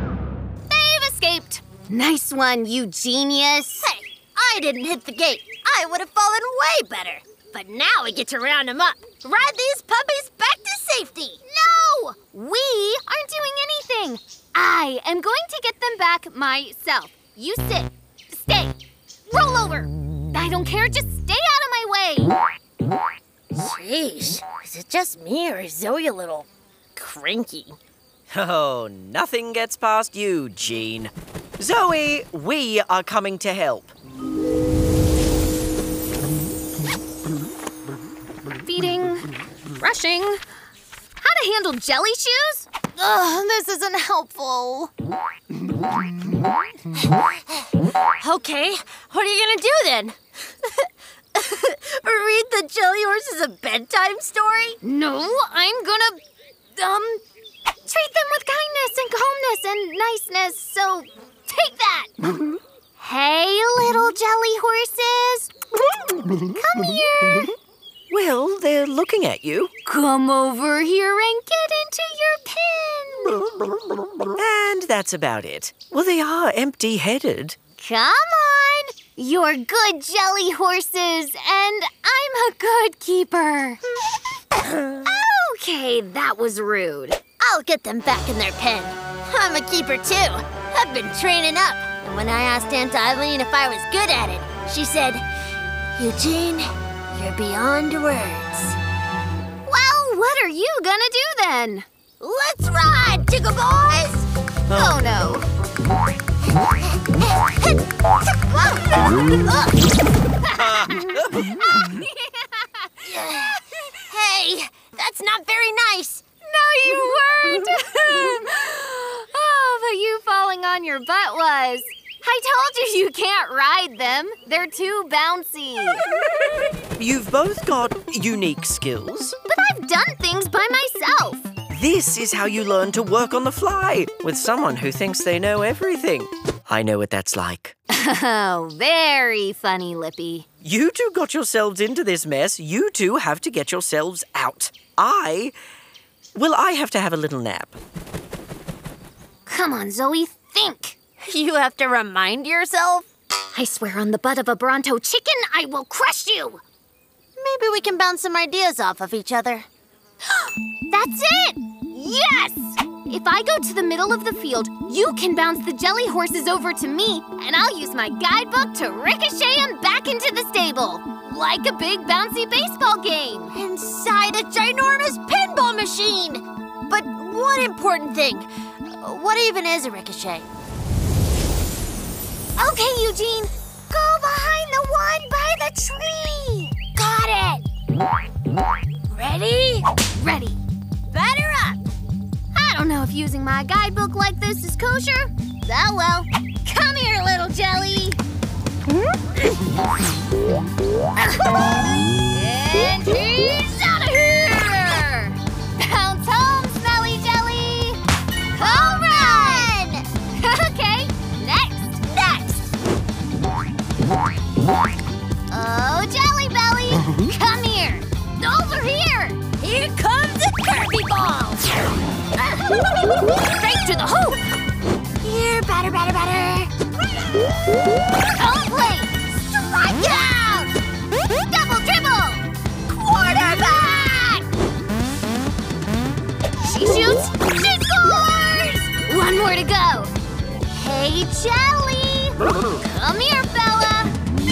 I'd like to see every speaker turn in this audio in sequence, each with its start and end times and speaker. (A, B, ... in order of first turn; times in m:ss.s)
0:00.7-0:03.9 A
0:03.8-0:11.4 B
0:11.4-0:18.8 A
0:19.3-0:22.4 A
0:23.5-0:27.8 B
0:28.3-0:33.9 C
0:38.6-0:40.4 A
0:41.2-0:44.9 A
0:47.0-0:47.7 B
0:48.2-0:54.8 B
0:54.8-0:56.2 A
0:56.8-0:57.2 A
0:57.9-1:02.4 A
1:03.0-1:05.5 A
1:06.3-1:07.5 A
1:08.1-1:09.7 C
1:09.8-1:13.4 A
1:14.3-1:17.6 C
1:17.8-1:23.8 A
1:25.0-1:27.2 A
1:27.4-1:35.2 B
1:36.0-1:38.8 B
1:39.7-1:41.9 A
1:42.2-1:44.3 B
1:44.7-1:45.5 A
1:44.7-1:45.3 C
1:46.6-1:49.8 B
1:50.4-1:53.1 A
1:50.6-1:51.5 C
1:53.0-1:56.2 B
1:56.4-2:06.0 A
2:07.0-2:09.4 C
2:09.5-2:11.5 A
2:11.7-2:17.8 C
2:17.9-2:20.5 A
2:20.6-2:25.6 C
2:26.4-2:27.8 C
2:29.5-2:31.0 A
2:31.2-2:33.1 B
2:33.5-2:36.6 A
2:37.4-2:39.7 B
2:40.9-2:53.6 A
2:53.5-3:00.5 B
3:02.6-3:03.5 A
3:03.9-3:07.6 B
3:09.1-3:09.9 B
3:10.1-3:10.6 A
3:11.1-3:11.8 B
3:12.5-3:15.3 A
3:15.6-3:16.3 B
3:16.6-3:18.2 A
3:22.3-3:28.0 A
3:28.5-3:29.7 A
3:28.6-3:30.0 B
3:30.4-3:32.0 A
3:32.1-3:32.7 B
3:35.5-3:39.4 A
3:39.6-3:41.8 B
3:42.4-3:42.8 A
3:43.4-3:44.4 A
3:45.2-3:46.7 B
3:48.3-3:49.3 A
3:49.5-3:50.7 B
3:51.5-3:54.5 B
3:56.6-4:00.1 A
4:00.7-4:02.4 B
4:02.7-4:04.2 A